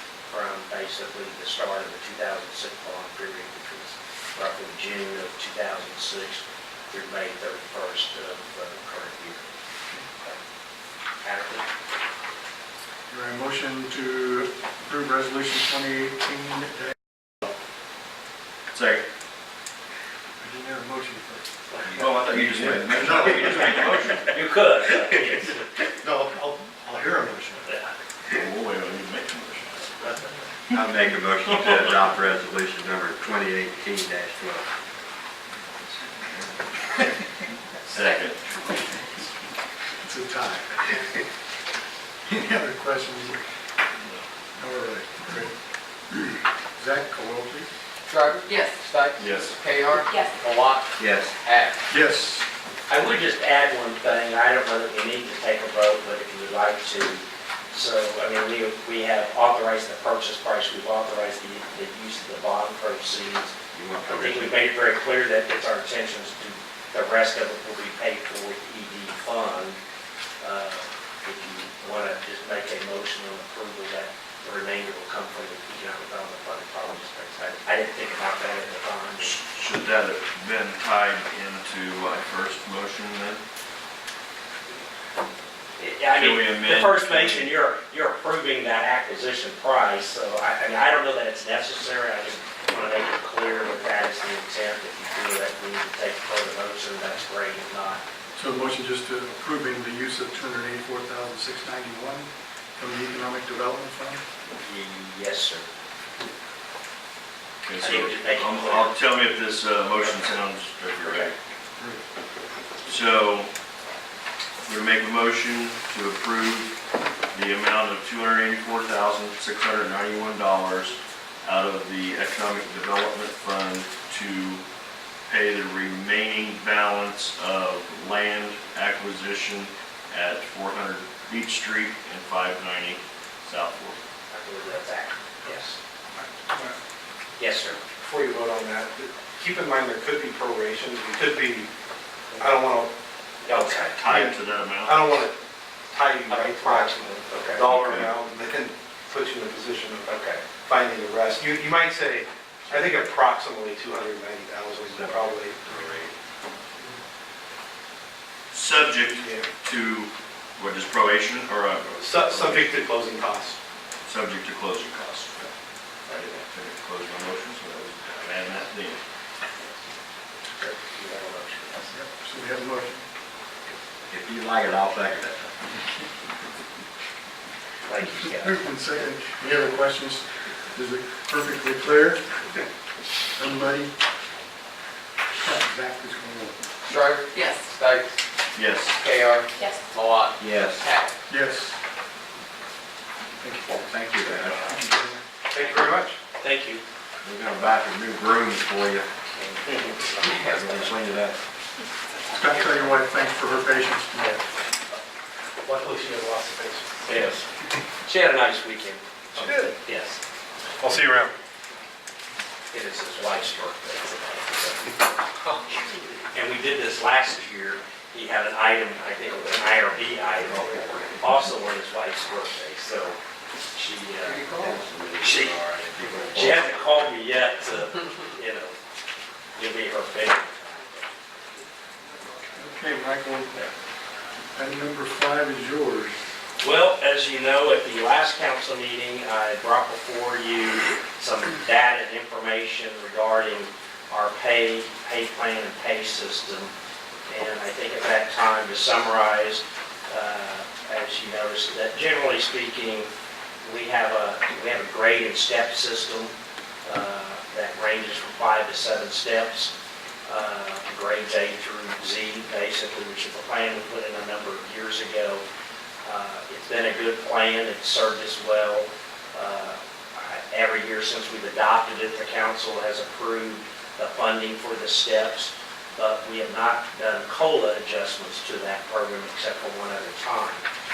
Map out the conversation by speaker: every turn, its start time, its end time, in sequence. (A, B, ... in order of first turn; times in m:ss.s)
0:00.3-0:09.4 A
0:11.2-0:11.6 A
0:13.1-0:16.9 B
0:18.7-0:19.0 C
0:20.4-0:21.4 B
0:21.8-0:24.4 C
0:22.2-0:23.8 D
0:23.5-0:25.8 A
0:26.0-0:27.7 B
0:28.3-0:30.1 C
0:30.7-0:34.6 D
0:31.5-0:32.0 C
0:36.2-0:36.5 C
0:37.9-0:38.9 C
0:40.0-0:41.2 B
0:42.2-0:43.4 B
0:44.6-0:45.5 B
0:46.1-0:47.7 B
0:48.1-0:51.8 E
0:49.2-0:49.5 C
0:51.0-0:51.3 D
0:51.9-0:52.4 B
0:52.9-1:03.5 A
1:03.7-1:04.6 D
1:04.0-1:09.8 A
1:10.4-1:19.3 A
1:19.2-1:23.4 C
1:25.8-1:38.0 A
1:26.1-1:27.5 C
1:38.4-1:44.2 B
1:44.6-1:45.7 A
1:47.6-1:51.3 C
1:47.8-1:49.0 A
1:51.0-1:51.3 A
1:52.8-1:53.5 C
1:54.6-1:56.7 C
1:57.3-2:04.6 C
2:05.3-2:14.0 C
2:14.3-2:15.8 A
2:16.2-2:16.8 F
2:17.4-2:17.8 A
2:18.0-2:21.7 F
2:22.4-2:22.9 F
2:23.5-2:24.0 A
2:23.5-2:25.4 F
2:24.0-2:25.1 C
2:25.9-2:35.8 F
2:26.3-2:27.7 A
2:27.7-2:28.1 C
2:34.9-2:36.1 D
2:38.5-2:42.7 C
2:39.1-2:39.5 F
2:42.0-2:43.6 F
2:44.0-2:45.5 C
2:46.0-2:49.0 C
2:50.5-2:51.9 A
2:51.9-2:53.0 B
2:54.1-2:55.5 D
2:57.9-2:59.0 A
2:58.0-3:02.2 B
3:03.4-3:03.9 B
3:05.4-3:06.6 B
3:06.8-3:08.2 E
3:08.5-3:09.0 C
3:09.0-3:11.2 E
3:10.4-3:10.9 D
3:11.3-3:11.8 B
3:13.4-3:13.9 B
3:13.8-3:14.8 D
3:14.6-3:15.2 B
3:15.5-3:16.2 F
3:16.3-3:16.8 A
3:17.2-3:19.1 D
3:19.3-3:20.4 A
3:20.2-3:21.4 D
3:22.3-3:24.5 B
3:22.4-3:22.9 A
3:25.6-3:27.1 F
3:27.0-3:27.5 A
3:28.0-3:30.2 A
3:29.4-3:29.8 F
3:30.8-3:31.3 F
3:32.7-3:35.1 A
3:36.3-3:43.2 A
3:43.7-3:44.5 A
3:44.2-3:44.8 E
3:44.5-3:46.9 D
3:45.2-3:45.7 A
3:46.3-3:48.8 A
3:49.5-3:51.1 A
3:52.5-3:53.6 B
3:54.5-3:56.2 B
3:56.6-4:06.7 A
4:07.3-4:13.1 A
4:13.6-4:16.3 A
4:16.8-4:19.7 A
4:20.2-4:25.4 A
4:26.0-4:40.6 A